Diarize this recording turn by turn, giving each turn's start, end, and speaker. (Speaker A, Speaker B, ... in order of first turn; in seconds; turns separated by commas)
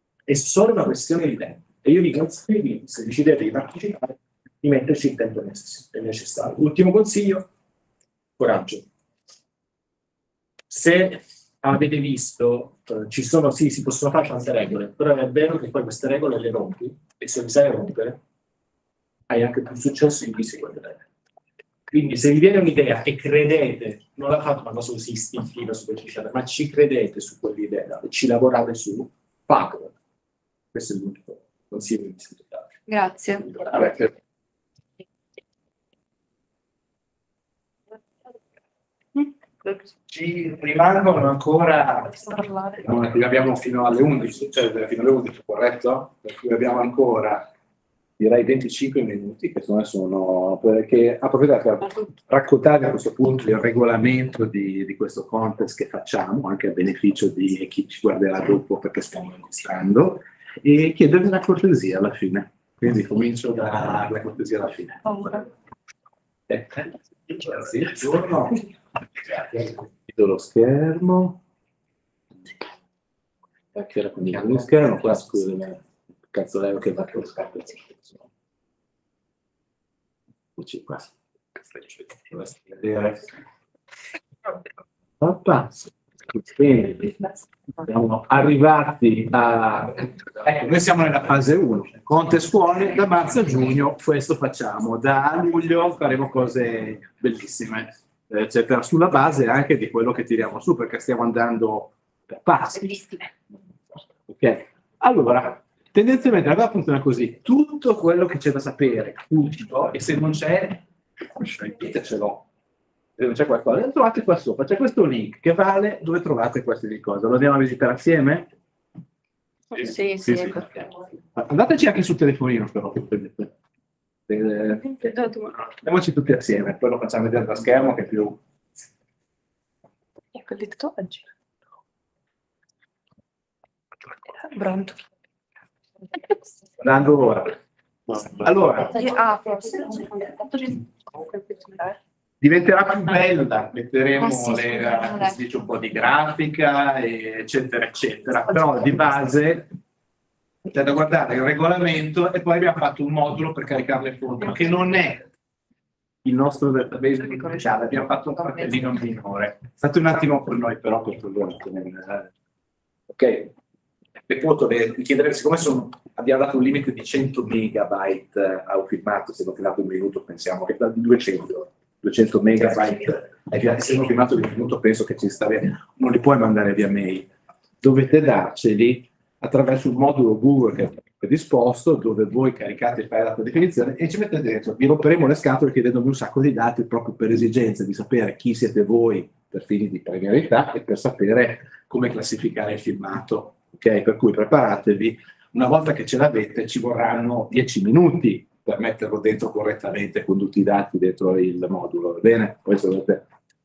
Speaker A: 0.3-7.5, Speaker A: 8.4-8.8, Speaker A: 10.7-18.2, Speaker A: 19.3-21.0, Speaker A: 21.9-29.9, Speaker A: 30.7-32.7, Speaker B: 32.9-33.9, Speaker C: 40.1-42.2, Speaker B: 42.3-42.8, Speaker C: 42.8-47.5, Speaker C: 48.2-65.4, Speaker C: 66.5-68.7, Speaker C: 69.3-71.4, Speaker C: 73.7-78.2, Speaker C: 80.6-81.1, Speaker C: 81.7-83.3, Speaker C: 85.2-87.2, Speaker C: 87.8-103.3, Speaker C: 104.3-110.8, Speaker C: 111.4-112.4, Speaker C: 113.2-118.5, Speaker B: 119.8-120.6, Speaker C: 119.8-123.5, Speaker C: 124.3-124.9, Speaker B: 125.0-125.5, Speaker C: 125.7-128.4, Speaker B: 130.3-131.2, Speaker B: 134.4-135.0, Speaker C: 136.8-137.6, Speaker C: 138.3-138.9, Speaker B: 138.9-141.9, Speaker C: 142.4-149.7, Speaker B: 144.3-145.2, Speaker C: 150.7-155.3, Speaker C: 156.2-162.3, Speaker C: 163.1-163.5, Speaker C: 164.3-177.3, Speaker C: 177.8-203.2